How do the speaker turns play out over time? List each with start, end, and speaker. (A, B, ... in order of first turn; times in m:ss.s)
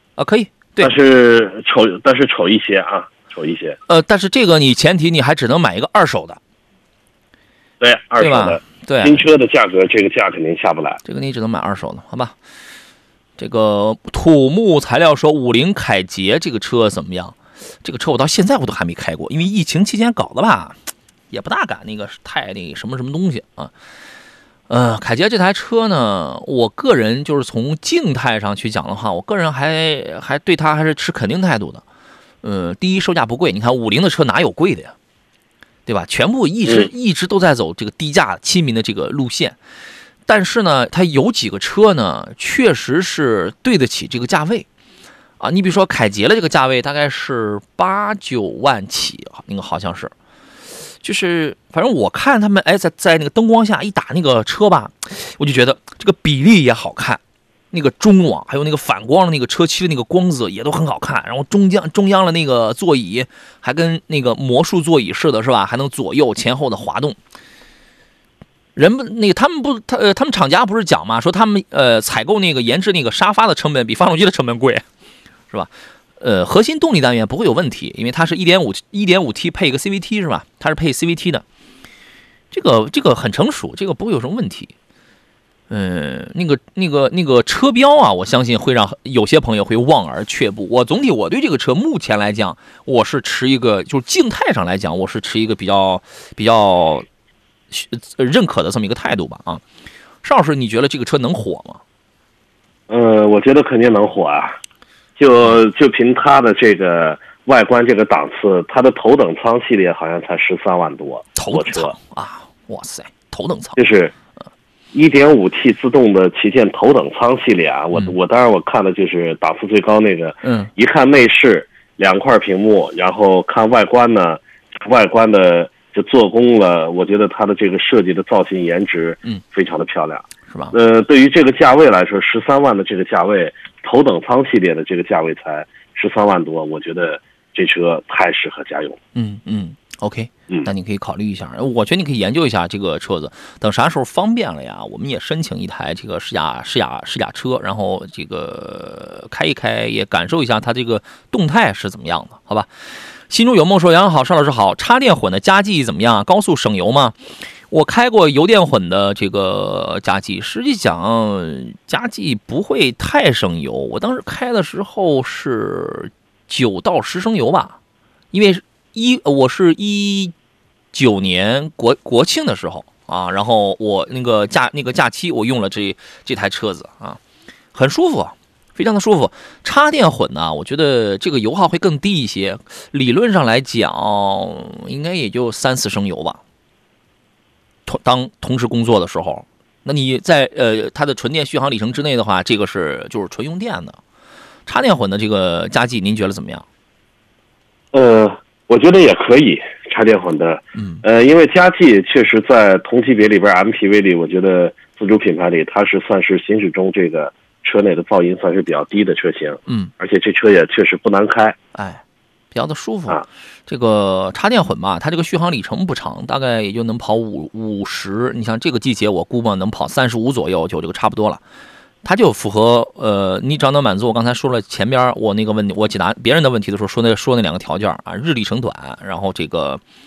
0:00.2-0:01.0 A
0:00.8-0:03.8 B
0:03.9-0:06.4 A
0:07.8-0:11.0 B
0:08.2-0:09.2 A
0:11.0-0:12.3 A
0:13.4-0:20.8 A
0:21.3-0:23.7 A
0:24.7-0:31.8 A
0:32.4-0:34.9 A
0:35.9-0:39.6 A
0:40.3-0:44.7 A
0:45.4-0:50.1 A
0:51.0-0:57.2 A
0:57.7-1:07.2 A
1:08.8-1:14.8 A
1:15.5-1:21.4 A
1:22.5-1:24.7 A
1:25.7-1:37.1 A
1:37.7-1:39.6 A
1:40.2-1:41.8 A
1:42.9-1:44.6 B
1:45.2-1:51.9 B
1:51.4-1:53.8 A
1:53.8-1:54.1 B
1:54.9-2:19.0 B
2:00.4-2:00.7 A
2:19.2-2:32.7 A
2:33.3-2:37.2 A
2:37.7-2:47.8 A
2:48.3-2:50.3 A
2:50.9-2:57.2 A
2:57.7-3:06.4 A
3:07.9-3:14.0 A
3:14.7-3:16.6 A
3:17.9-3:31.6 B
3:20.8-3:21.0 A
3:31.8-3:32.0 A
3:32.5-3:41.4 A
3:42.0-3:49.8 A